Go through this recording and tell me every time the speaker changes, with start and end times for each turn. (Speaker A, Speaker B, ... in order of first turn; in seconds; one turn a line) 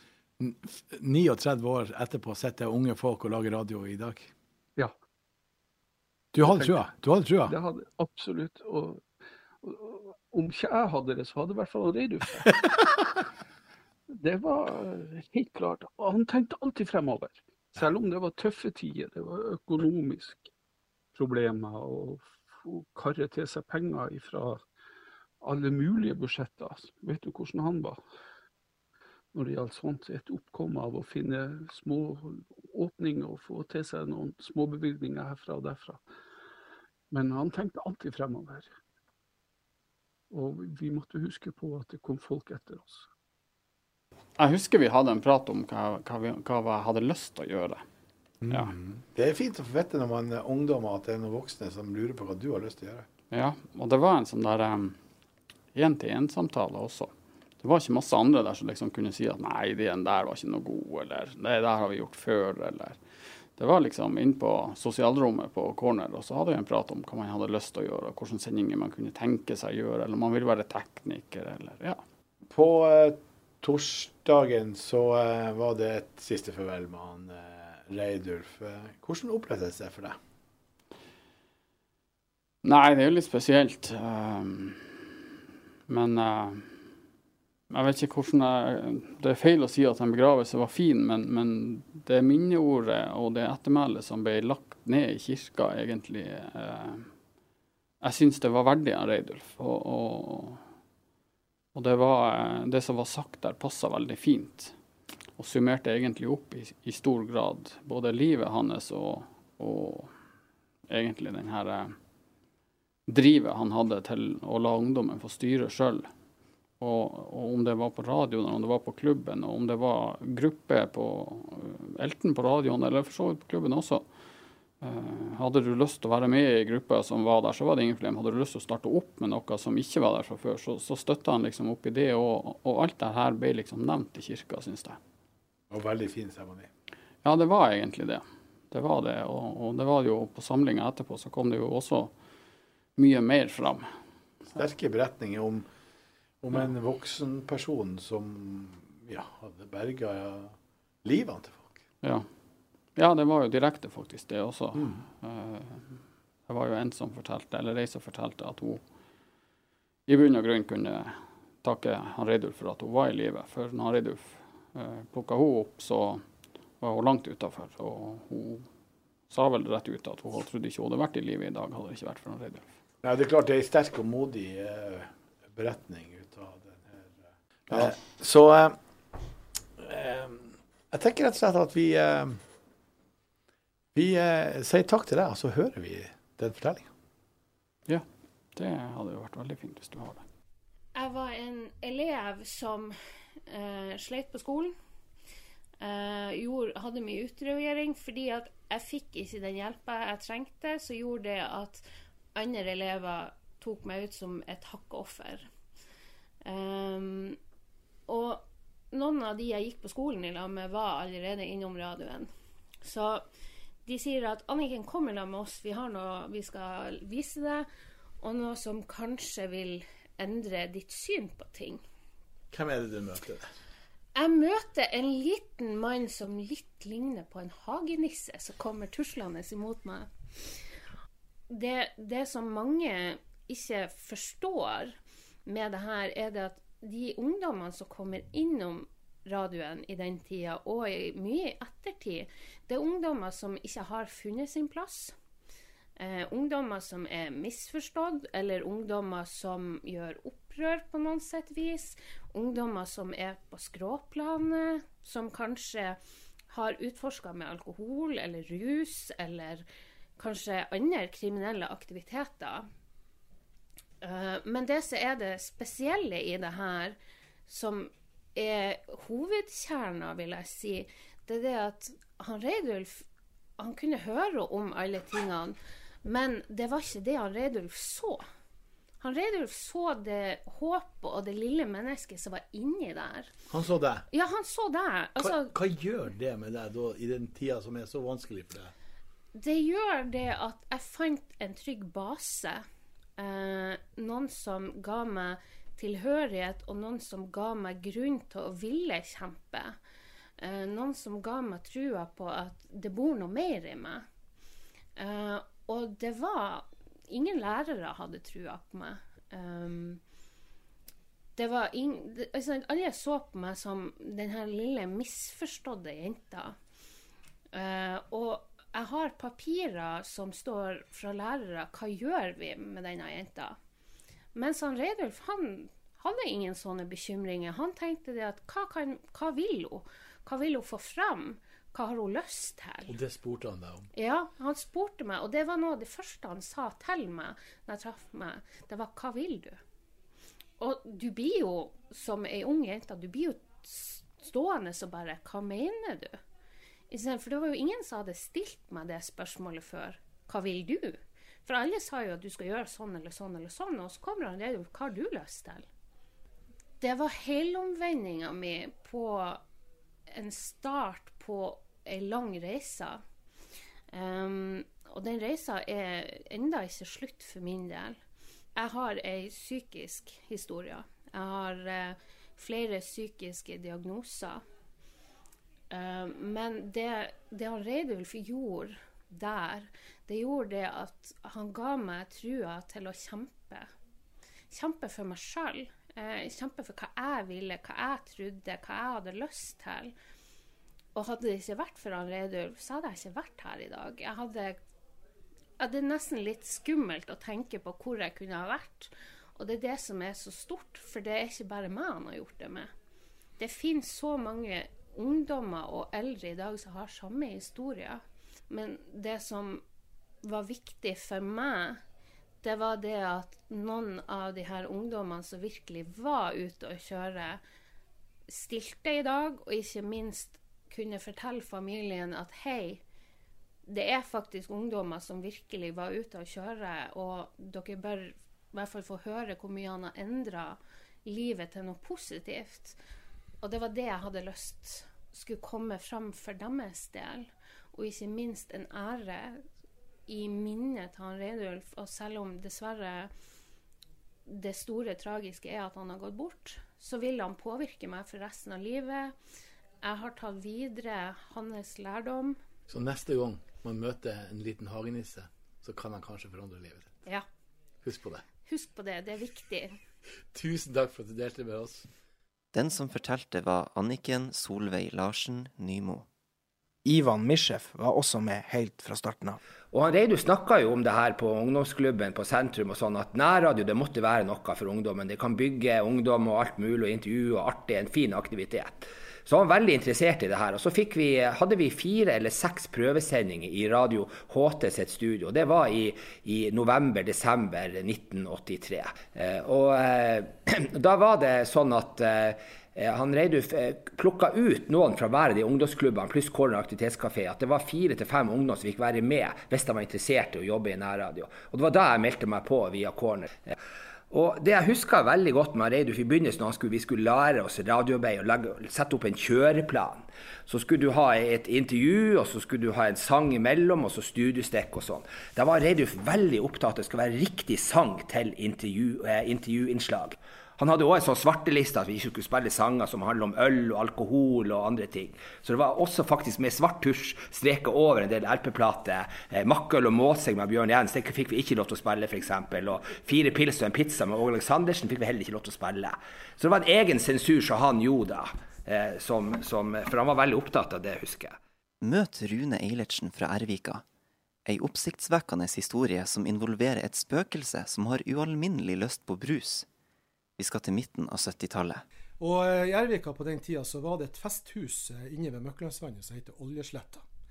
Speaker A: 0.4-4.3
Speaker A: 6.3-7.5
Speaker B: 6.4-6.8
Speaker B: 7.5-9.1
Speaker B: 9.6-12.5
Speaker B: 14.1-20.5
Speaker B: 21.1-24.6
Speaker B: 25.4-28.0
Speaker B: 29.3-36.0
Speaker B: 37.1-38.7
Speaker B: 40.3-43.1
Speaker C: 44.4-47.8
Speaker A: 48.4-53.1
Speaker C: 48.5-48.7
Speaker C: 53.3-55.0
Speaker C: 55.7-63.0
Speaker C: 63.5-72.0
Speaker A: 72.5-80.2
Speaker C: 82.6-85.1
Speaker C: 85.9-86.9
Speaker C: 87.7-97.1
Speaker C: 98.0-100.6
Speaker C: 101.7-104.7
Speaker C: 105.4-110.1
Speaker C: 110.9-112.0
Speaker C: 113.1-116.1
Speaker C: 116.8-124.1
Speaker C: 124.8-135.0
Speaker A: 135.7-136.7
Speaker C: 137.2-142.1
Speaker C: 143.0-143.9
Speaker A: 144.5-145.7
Speaker A: 146.4-151.8
Speaker C: 152.9-158.8
Speaker A: 154.7-155.1
Speaker C: 160.1-166.2
Speaker C: 166.8-168.7
Speaker C: 169.3-172.7
Speaker A: 173.0-178.8
Speaker A: 179.8-182.4
Speaker A: 183.9-186.9
Speaker C: 187.9-190.2
Speaker D: 190.9-192.9
Speaker D: 193.5-194.7
Speaker D: 195.8-205.5
Speaker D: 206.4-207.4
Speaker D: 208.1-212.3
Speaker D: 212.8-213.2
Speaker D: 213.8-217.7
Speaker D: 218.2-221.8
Speaker A: 222.5-223.5
Speaker D: 224.2-230.6
Speaker D: 231.5-245.1
Speaker D: 246.0-256.0
Speaker D: 256.5-259.6
Speaker D: 260.2-262.7
Speaker D: 264.0-273.1
Speaker D: 273.6-278.2
Speaker D: 279.0-283.3
Speaker A: 283.5-284.0
Speaker D: 284.1-285.5
Speaker A: 285.2-288.7
Speaker D: 289.3-292.6
Speaker D: 293.2-299.8
Speaker D: 300.4-304.0
Speaker D: 305.0-310.0
Speaker D: 311.4-316.6
Speaker D: 317.5-323.6
Speaker D: 324.3-332.9
Speaker A: 332.9-333.9
Speaker D: 333.9-339.6
Speaker D: 340.6-346.2
Speaker D: 346.9-355.7
Speaker D: 356.8-359.4
Speaker D: 360.1-363.0
Speaker D: 363.9-368.0
Speaker D: 368.6-374.4
Speaker D: 375.7-383.7
Speaker D: 384.5-389.9
Speaker D: 390.9-394.6
Speaker D: 395.6-402.7
Speaker D: 403.4-409.6
Speaker D: 410.2-411.8
Speaker D: 412.4-417.4
Speaker D: 418.3-422.8
Speaker D: 423.7-432.8
Speaker D: 433.4-439.4
Speaker D: 440.1-443.1
Speaker D: 444.3-449.1
Speaker D: 449.8-452.4
Speaker A: 452.7-456.9
Speaker A: 457.8-458.2
Speaker D: 458.4-459.8
Speaker A: 460.3-461.9
Speaker E: 462.5-466.1
Speaker F: 466.8-469.4
Speaker G: 469.7-503.5
Speaker G: 504.1-541.4
Speaker E: 541.8-543.8
Speaker E: 544.5-549.6
Speaker E: 550.4-551.8
Speaker H: 552.2-557.0